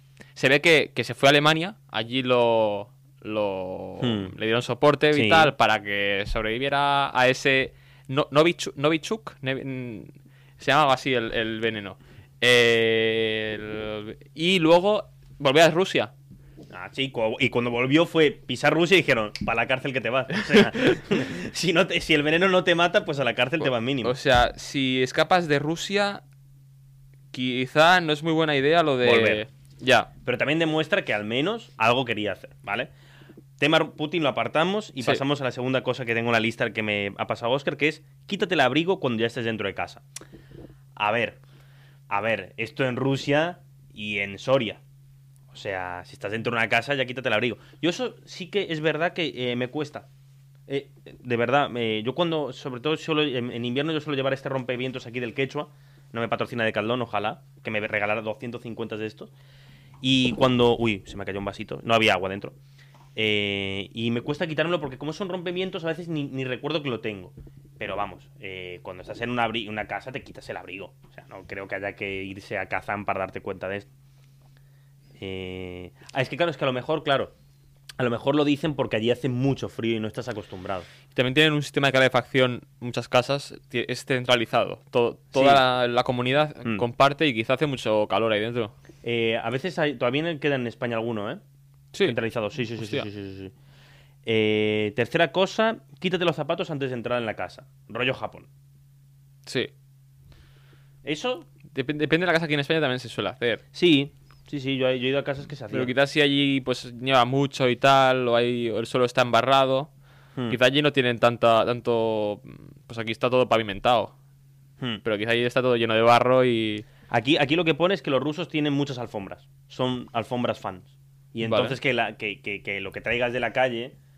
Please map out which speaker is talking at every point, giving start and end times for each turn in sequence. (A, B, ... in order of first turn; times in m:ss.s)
0:00.4-0:16.1 A
0:04.0-0:04.3 B
0:05.1-0:05.5 B
0:16.7-0:24.2 B
0:20.4-0:21.0 A
0:24.0-0:26.2 A
0:27.3-0:30.1 A
0:29.0-0:29.4 B
0:30.2-0:32.9 B
0:33.6-0:40.0 B
0:41.0-0:41.4 B
0:42.1-0:44.8 B
0:45.5-0:50.1 B
0:50.7-0:59.3 B
1:00.0-1:02.6 B
1:03.1-1:13.9 B
1:15.2-1:17.3 B
1:18.0-1:20.9 B
1:21.1-1:28.7 A
1:25.3-1:25.6 B
1:29.0-1:31.4 B
1:32.0-1:33.5 B
1:32.8-1:33.1 A
1:34.2-1:38.5 B
1:39.4-1:39.7 A
1:41.0-1:41.5 B
1:41.7-1:43.6 A
1:43.7-1:45.9 B
1:45.7-1:49.9 A
1:50.5-1:54.1 A
1:55.0-1:56.8 A
1:57.1-2:03.9 B
2:01.4-2:01.8 A